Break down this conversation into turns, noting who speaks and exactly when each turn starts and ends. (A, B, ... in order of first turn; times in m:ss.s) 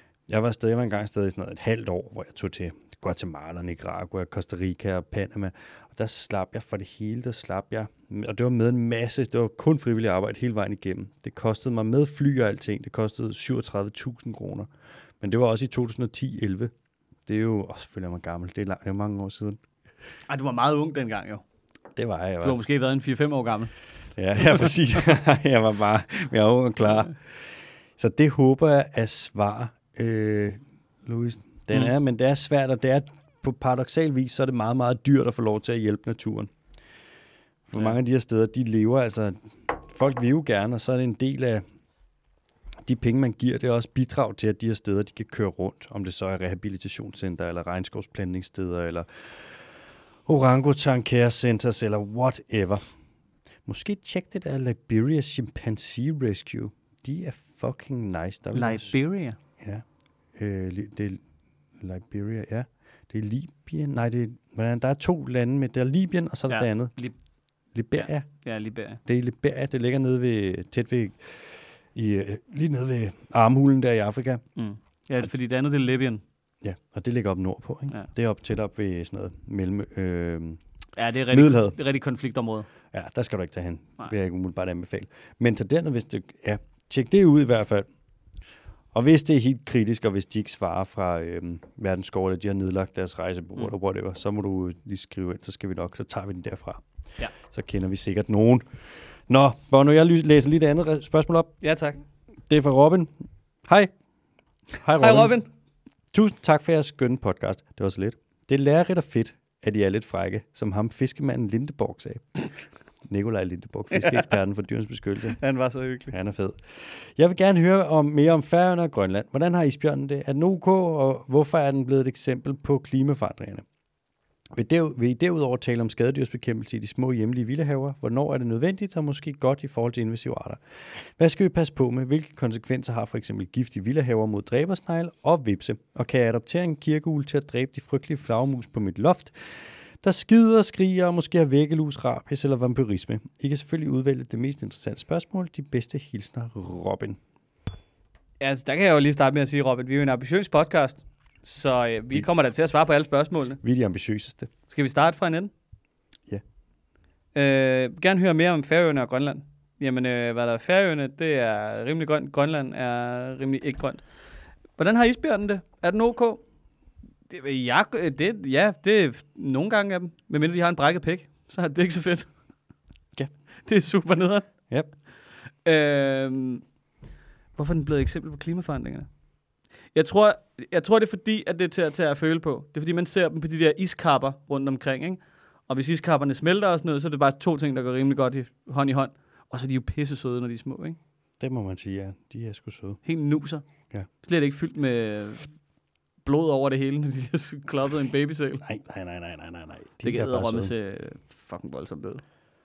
0:00.3-0:14.7 A
0:15.2-0:16.7 A
0:17.3-0:19.6 A
0:20.3-0:21.4 B
0:22.0-0:22.6 A
0:22.4-0:23.7 B
0:24.2-0:36.5 A
0:24.4-0:24.7 B
0:37.7-0:41.6 A
0:42.9-0:49.1 A
0:50.3-0:52.9 A
0:53.7-0:58.9 A
0:58.5-0:59.4 B
1:00.4-1:01.2 A
1:01.8-1:06.9 A
1:06.5-1:07.1 B
1:07.7-1:08.3 A
1:08.4-1:09.0 B
1:09.1-1:14.4 A
1:14.6-1:16.2 B
1:16.6-1:20.6 A
1:21.0-1:22.7 B
1:21.3-1:21.8 A
1:22.9-1:27.9 A
1:28.9-1:36.8 A
1:37.4-1:38.7 A
1:39.3-1:41.5 A
1:41.6-1:42.0 B
1:42.5-1:43.1 A
1:43.7-1:43.9 A
1:44.8-1:45.4 A
1:45.0-1:45.5 B
1:46.1-1:52.5 A
1:53.0-1:55.4 A
1:55.4-1:56.2 B
1:56.1-2:03.7 A
2:04.5-2:19.3 A
2:20.0-2:27.2 A
2:28.4-2:33.6 B
2:33.6-2:34.5 A
2:34.7-2:35.5 B
2:37.4-2:44.0 B
2:44.8-2:46.4 B
2:47.3-2:52.3 B
2:53.7-2:54.5 B
2:55.6-2:56.6 B
2:57.6-2:59.1 B
2:59.9-3:11.0 B
3:11.4-3:13.0 A
3:13.0-3:13.6 B
3:14.2-3:15.5 B
3:16.2-3:18.6 B
3:18.6-3:20.7 A
3:20.0-3:22.2 B